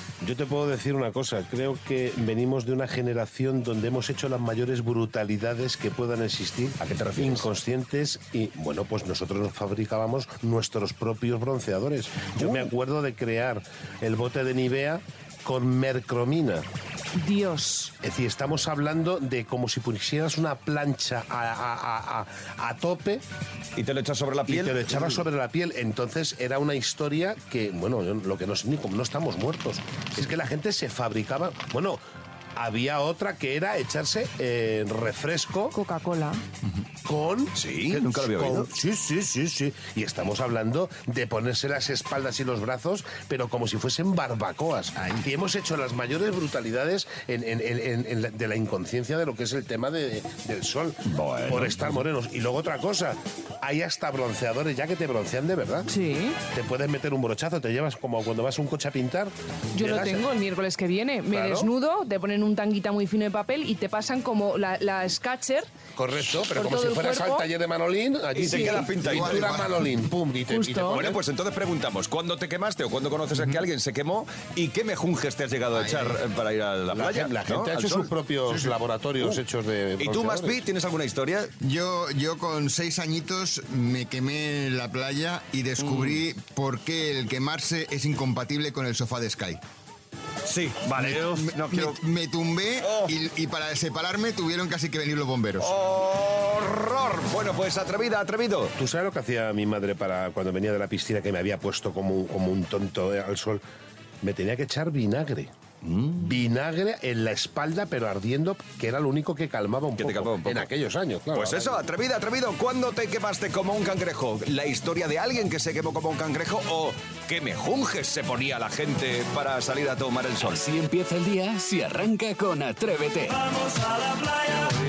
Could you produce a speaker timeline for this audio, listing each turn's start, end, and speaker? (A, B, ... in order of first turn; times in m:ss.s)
0:00.2-0:16.6 A
0:06.8-0:07.5 B
0:17.1-0:17.9 C
0:18.0-0:23.2 A
0:23.8-0:25.2 B
0:24.5-0:32.0 A
0:32.6-0:35.7 A
0:35.7-0:36.4 C
0:37.0-0:55.9 A
0:37.6-0:38.7 B
0:51.0-0:52.0 B
0:55.9-0:56.4 C
0:56.5-1:00.3 A
0:59.7-1:05.7 C
1:01.3-1:01.7 A
1:06.0-1:11.2 A
1:06.5-1:07.5 C
1:08.3-1:09.7 B
1:08.5-1:08.8 C
1:09.0-1:09.7 D
1:10.5-1:11.0 C
1:10.9-1:18.7 B
1:15.7-1:16.2 D
1:16.9-1:20.6 A
1:20.0-1:21.5 B
1:21.6-1:29.6 D
1:25.8-1:26.2 B
1:30.4-1:32.0 B
1:31.0-1:35.7 D
1:32.8-1:33.1 B
1:35.6-1:38.7 B
1:38.8-1:43.6 A
1:44.2-1:45.5 A
1:45.8-1:46.3 B
1:46.2-1:51.8 A
1:50.0-1:50.7 B
1:51.3-2:00.6 B
2:00.4-2:03.5 E